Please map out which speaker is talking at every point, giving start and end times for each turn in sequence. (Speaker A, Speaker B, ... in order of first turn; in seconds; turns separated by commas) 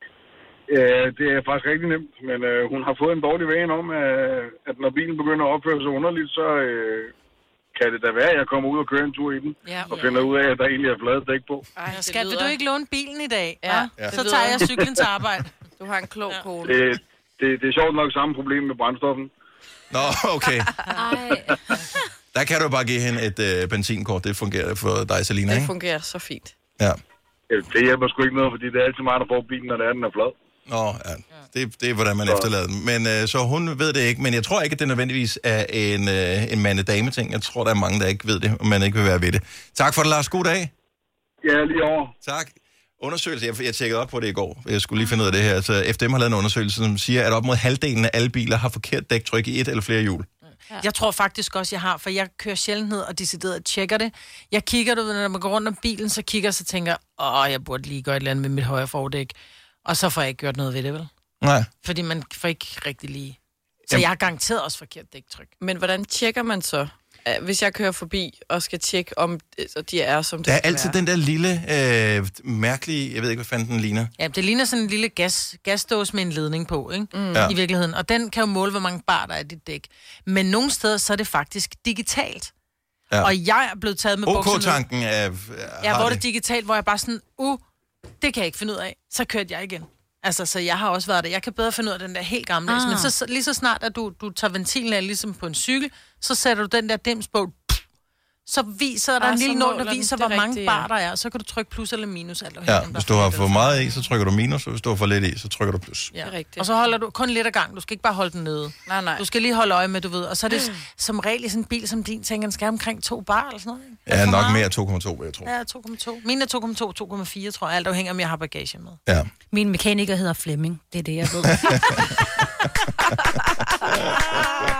Speaker A: 0.7-7.1, Speaker A: 7.7-11.7, Speaker B: 9.6-10.3, Speaker B: 11.8-12.6, Speaker C: 11.9-15.5, Speaker B: 13.6-14.7, Speaker D: 14.0-14.3, Speaker B: 15.8-16.8, Speaker A: 16.6-19.3, Speaker D: 19.9-20.8, Speaker E: 20.9-21.6, Speaker D: 22.3-25.7, Speaker B: 25.5-26.6, Speaker A: 27.5-30.3, Speaker D: 30.7-40.7, Speaker A: 41.4-42.1, Speaker D: 42.2-50.3, Speaker C: 50.7-61.1, Speaker D: 61.4-61.7, Speaker C: 61.8-63.4, Speaker C: 63.9-65.5, Speaker B: 65.6-71.0, Speaker D: 70.5-74.1, Speaker C: 74.2-82.5, Speaker B: 77.1-77.5, Speaker C: 83.2-84.8, Speaker D: 84.2-86.2, Speaker C: 85.8-87.6, Speaker C: 88.2-97.8, Speaker E: 92.7-93.1, Speaker C: 98.5-104.0, Speaker B: 99.2-100.9, Speaker D: 102.7-106.1, Speaker C: 106.1-114.6, Speaker B: 106.2-106.7, Speaker B: 108.8-109.2, Speaker D: 114.1-115.5, Speaker C: 115.4-119.0, Speaker E: 119.5-122.2